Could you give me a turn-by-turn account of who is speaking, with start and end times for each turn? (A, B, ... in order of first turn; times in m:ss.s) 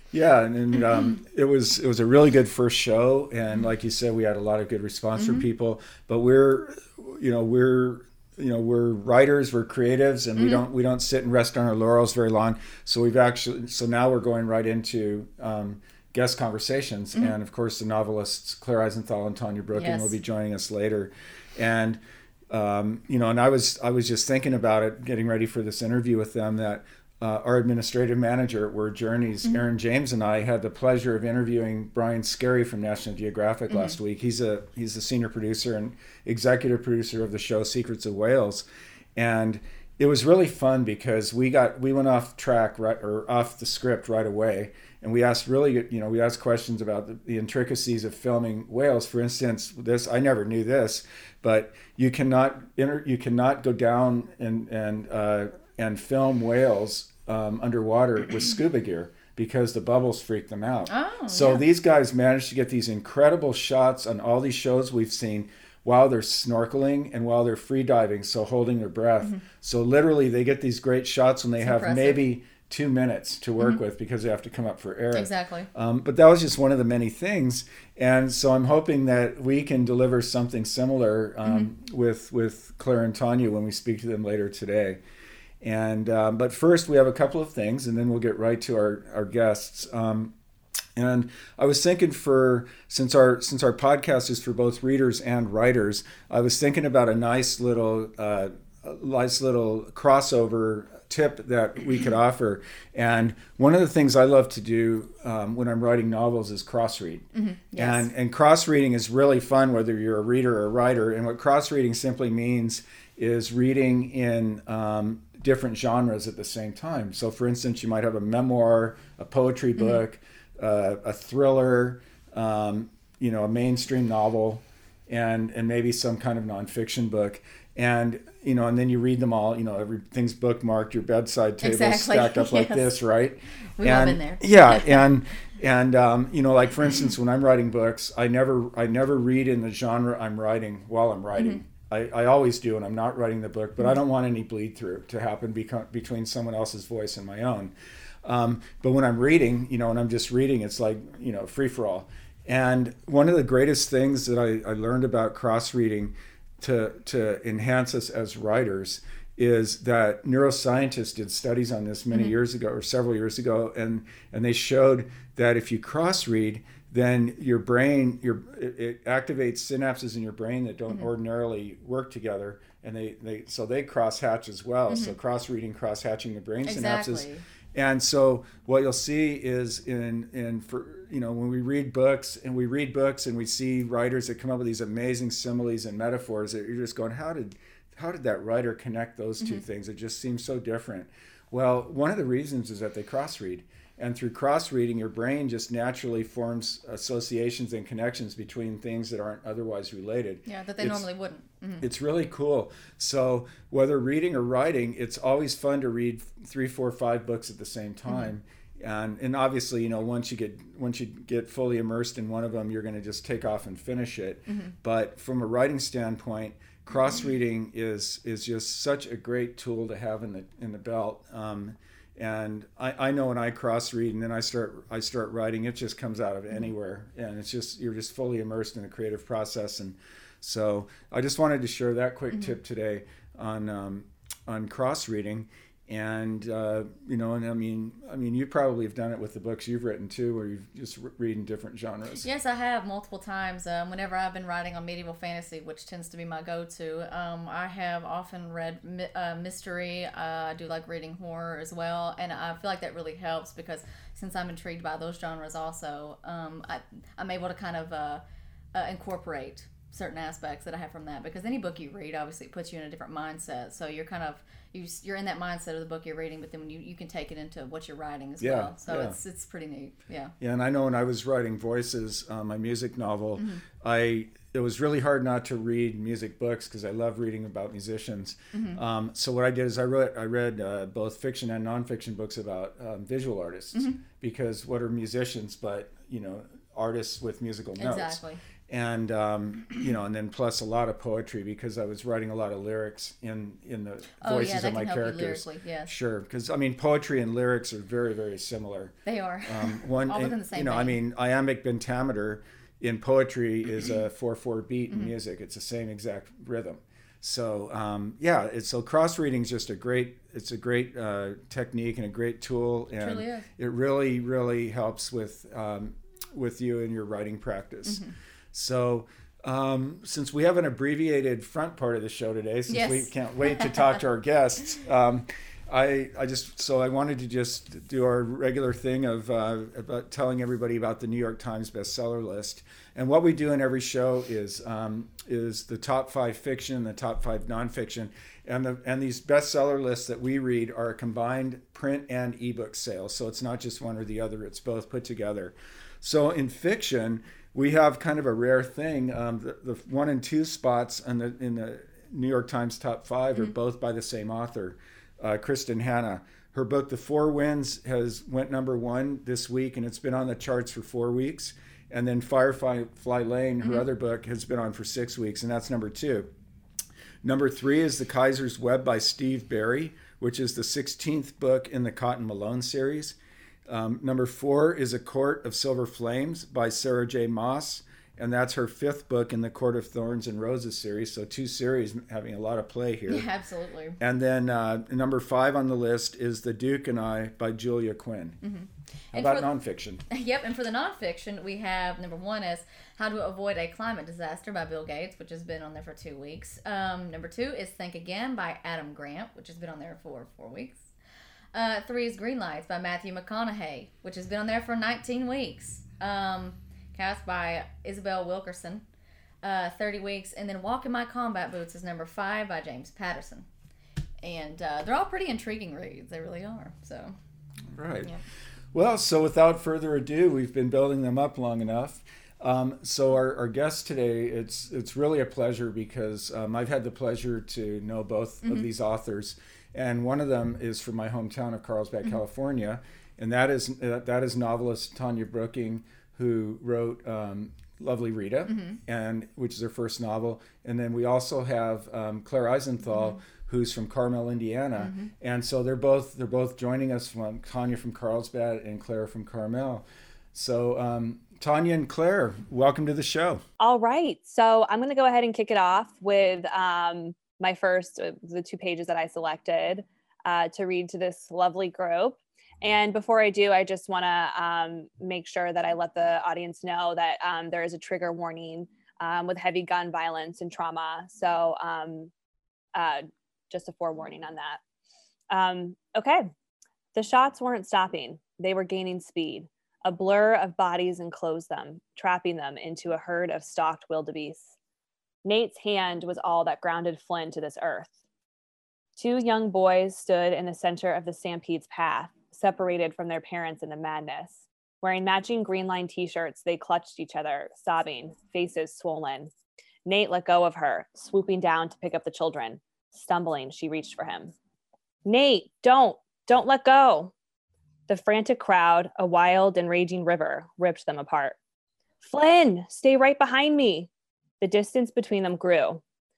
0:00.1-0:22.0 A
0:05.2-0:05.4 B
0:10.4-0:10.6 B
0:19.7-0:20.1 B
0:22.5-0:38.6 A
0:33.7-0:34.0 B
0:39.2-1:25.0 A
1:00.9-1:01.6 B
1:11.6-1:12.2 B
1:15.1-1:15.7 B
1:25.6-1:30.3 A
1:31.0-1:47.2 A
1:47.3-1:48.1 B
1:47.8-2:27.7 A
2:11.6-2:13.0 B
2:13.8-2:15.0 B
2:21.4-2:21.6 B
2:28.2-3:21.0 A
2:54.9-2:55.1 B
2:56.6-2:57.4 B
3:20.4-3:21.8 B
3:21.8-4:02.3 A
3:34.5-3:34.7 B
4:02.2-4:18.2 B
4:18.7-4:30.3 B
4:28.4-4:29.2 A
4:30.4-6:06.3 A
4:38.5-4:38.8 B
4:47.8-4:48.4 B
4:54.2-4:55.9 B
4:59.0-5:01.0 B
5:13.0-5:13.5 B
5:17.8-5:18.1 B
5:22.7-5:23.9 B
6:07.2-6:23.3 A
6:23.1-6:24.0 B
6:24.0-6:28.4 A
6:28.4-6:29.5 B
6:29.1-6:30.0 A
6:30.1-6:40.9 B
6:41.5-6:48.8 B
6:49.4-6:53.5 B
6:54.2-6:57.1 B
6:57.7-6:58.1 A
6:58.7-7:33.4 A
7:18.5-7:18.8 B
7:22.9-7:23.2 B
7:24.8-7:25.1 B
7:33.6-7:52.1 C
7:52.7-7:54.6 C
7:55.3-7:56.3 C
7:56.9-8:04.5 C
8:05.2-8:07.9 C
8:09.0-8:19.3 C
8:19.8-8:24.3 C
8:25.0-8:27.1 C
8:27.9-8:31.4 C
8:32.0-8:33.9 C
8:34.4-8:35.8 C